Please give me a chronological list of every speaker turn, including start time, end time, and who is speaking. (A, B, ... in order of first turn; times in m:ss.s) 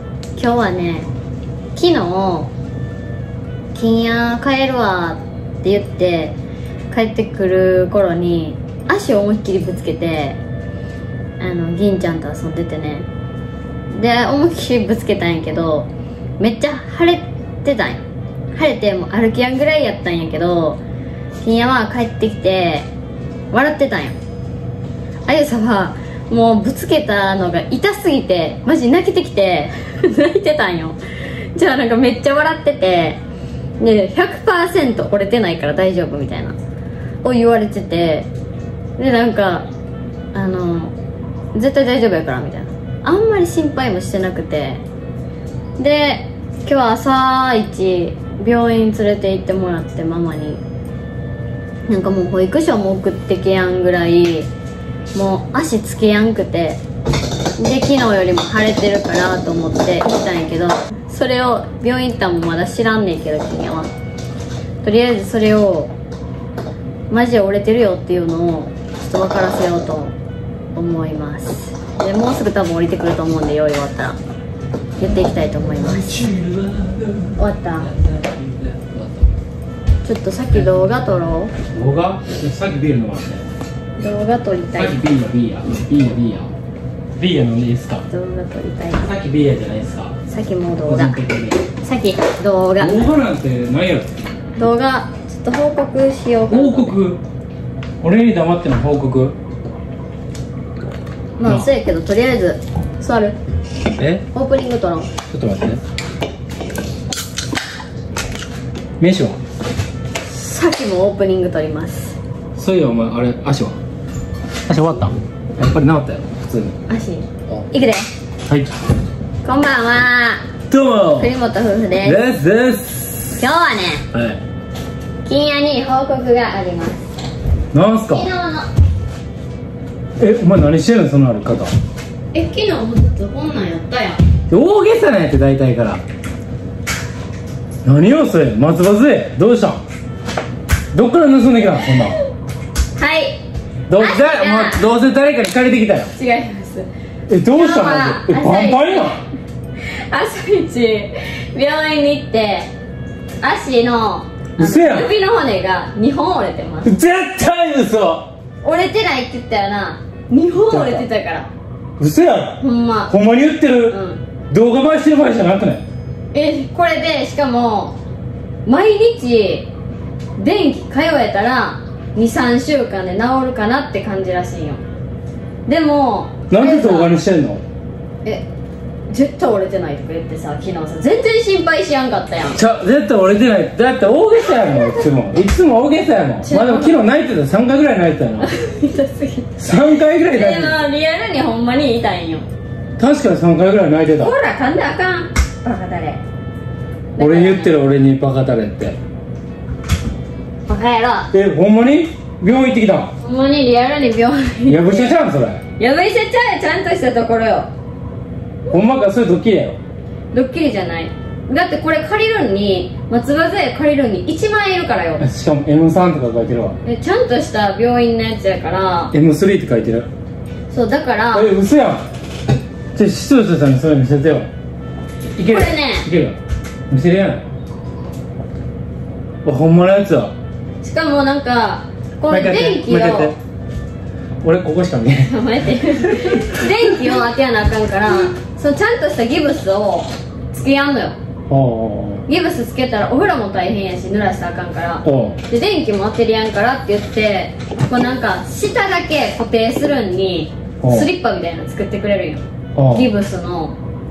0:00.4-0:01.1 A
0:01.7-0:02.5 A
0:03.7-0:06.4 A
0:06.9-0:10.4 A
0:11.4-0:13.1 A
0:13.9-0:18.0 A
0:18.6-0:20.8 A
0:21.4-0:22.9 A
0:23.5-0:24.2 A
0:25.3-0:31.0 A
0:31.5-0:33.2 A
0:33.8-0:36.6 A
0:37.2-0:38.3 A
0:39.0-0:39.7 A
0:40.3-0:40.9 A
0:41.5-0:44.8 A
0:45.8-0:50.6 A
0:51.9-0:54.5 A
0:55.1-0:56.8 A
0:57.6-1:03.9 A
1:04.8-1:05.9 A
1:07.1-1:10.1 A
1:10.8-1:14.2 A
1:15.0-1:16.2 A
1:15.8-1:19.3 B
1:17.4-1:17.9 A
1:20.0-1:21.5 A
1:21.7-1:23.4 B
1:24.0-1:25.0 A
1:24.8-1:26.5 B
1:27.2-1:28.0 B
1:28.1-1:29.1 A
1:28.9-1:30.1 B
1:30.3-1:31.2 A
1:30.8-1:31.6 B
1:31.8-1:33.1 A
1:32.8-1:34.1 B
1:34.6-1:37.0 A
1:36.5-1:37.2 B
1:38.0-1:39.3 B
1:41.4-1:43.4 A
1:44.0-1:44.2 B
1:44.3-1:45.1 A
1:45.3-1:45.8 B
1:49.0-1:49.4 B
1:50.2-1:52.2 A
1:52.6-1:53.8 B
1:54.6-1:56.8 B
1:56.9-1:58.1 A
1:58.5-1:58.7 B
1:59.4-2:00.4 A
2:00.7-2:01.3 B
2:01.1-2:02.2 A
2:02.0-2:03.4 B
2:03.4-2:04.0 A
2:04.1-2:04.4 B
2:05.2-2:07.1 A
2:07.7-2:08.3 B
2:08.1-2:08.7 A
2:10.2-2:11.7 B
2:12.3-2:14.2 A
2:14.5-2:16.0 B
2:17.8-2:19.8 B
2:20.9-2:22.2 B
2:23.0-2:23.4 A
2:23.9-2:26.1 B
2:24.0-2:24.8 A
2:26.1-2:26.8 A
2:27.3-2:29.2 B
2:27.5-2:29.2 A
2:29.8-2:32.7 A
2:33.4-2:37.0 A
2:34.6-2:35.1 B
2:36.8-2:38.3 B
2:38.6-2:41.5 A
2:40.7-2:41.0 B
2:42.0-2:43.9 B
2:42.6-2:43.1 A
2:43.9-2:44.2 A
2:44.5-2:45.8 B
2:46.3-2:48.0 A
2:48.6-2:49.7 A
2:50.4-2:54.8 A
2:55.7-2:57.2 A
2:56.5-2:57.6 B
2:59.1-3:02.6 A
3:02.6-3:08.5 B
3:04.4-3:05.0 A
3:06.4-3:07.0 A
3:08.4-3:12.4 A
3:09.6-3:10.8 B
3:13.0-3:14.4 B
3:14.2-3:16.2 A
3:17.2-3:17.8 A
3:17.2-3:19.0 B
3:20.7-3:21.3 A
3:21.3-3:23.1 B
3:23.2-3:25.1 A
3:24.7-3:25.6 B
3:25.8-3:27.7 A
3:28.7-3:29.8 B
3:30.3-3:35.2 A
3:35.2-3:36.8 B
3:36.8-3:39.1 A
3:39.1-3:40.1 B
3:40.7-3:41.5 A
3:41.3-3:42.0 B
3:42.9-3:44.5 B
3:45.4-3:46.4 B
3:45.4-3:46.1 A
3:46.9-3:47.4 B
3:49.4-3:50.3 B
3:50.8-3:53.3 A
3:52.3-3:53.4 B
3:54.4-3:55.3 B
3:55.2-4:01.2 A
3:56.0-3:56.9 B
4:01.5-4:02.2 B
4:02.3-4:13.8 A
4:05.0-4:05.4 B
4:10.8-4:11.1 B
4:12.8-4:13.1 B